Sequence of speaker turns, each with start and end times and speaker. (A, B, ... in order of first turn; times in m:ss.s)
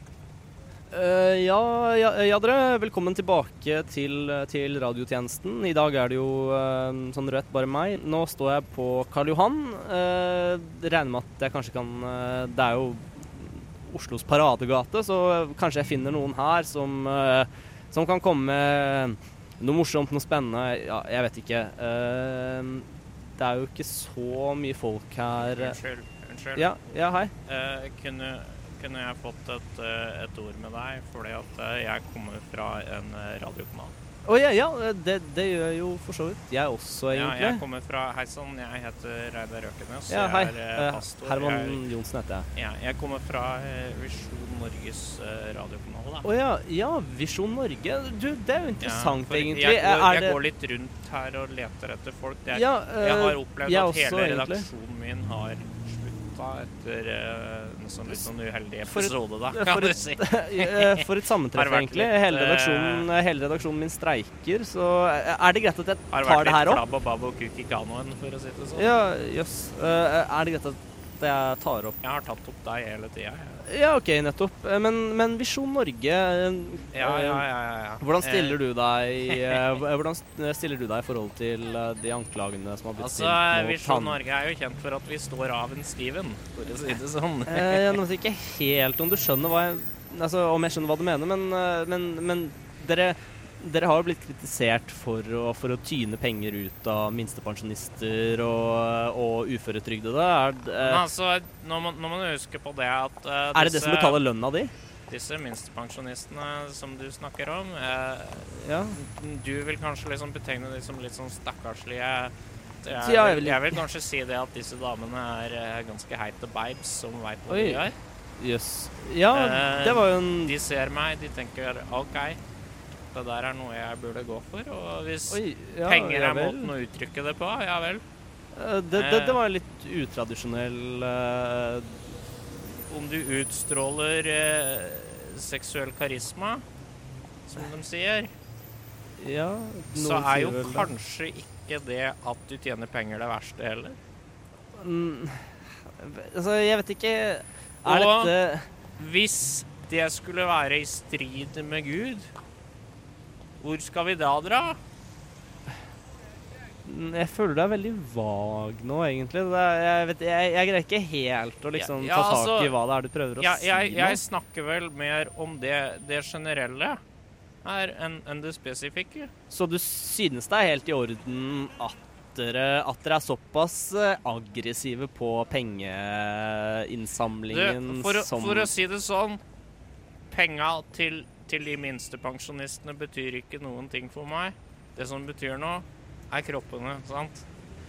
0:00.9-0:25.8 A
0:25.4-0:26.7 B
0:26.5-0:27.3 A
0:27.4-0:33.9 B
0:34.2-0:37.6 A
0:37.1-0:41.8 B
0:40.1-0:42.5 A
0:42.5-0:46.2 B
0:46.2-0:50.4 A
0:48.8-1:03.1 B
0:52.5-0:54.6 A
0:58.8-1:06.8 A
1:06.1-1:08.9 B
1:08.8-1:12.0 A
1:12.0-1:13.6 B
1:13.6-1:17.4 A
1:16.9-1:18.6 B
1:18.0-1:24.2 A
1:19.3-1:19.6 B
1:23.0-1:28.0 B
1:27.5-1:41.0 A
1:40.8-1:44.2 B
1:43.5-1:44.7 A
1:45.1-1:57.9 B
1:48.6-1:49.0 A
1:53.0-1:53.8 A
1:57.5-2:00.5 A
1:59.3-2:02.4 B
2:03.1-2:08.0 B
2:05.3-2:06.7 A
2:08.5-2:12.0 A
2:08.9-2:09.4 B
2:12.9-2:16.6 B
2:17.5-2:18.3 B
2:19.2-2:20.9 A
2:19.9-2:24.0 B
2:24.7-2:28.6 A
2:27.8-2:28.3 B
2:29.0-2:32.3 B
2:33.6-2:34.8 B
2:36.8-2:44.2 A
2:41.8-2:42.7 B
2:43.4-2:47.0 B
2:47.6-2:49.3 B
2:49.5-2:58.7 A
2:57.5-2:59.4 B
3:00.3-3:07.4 B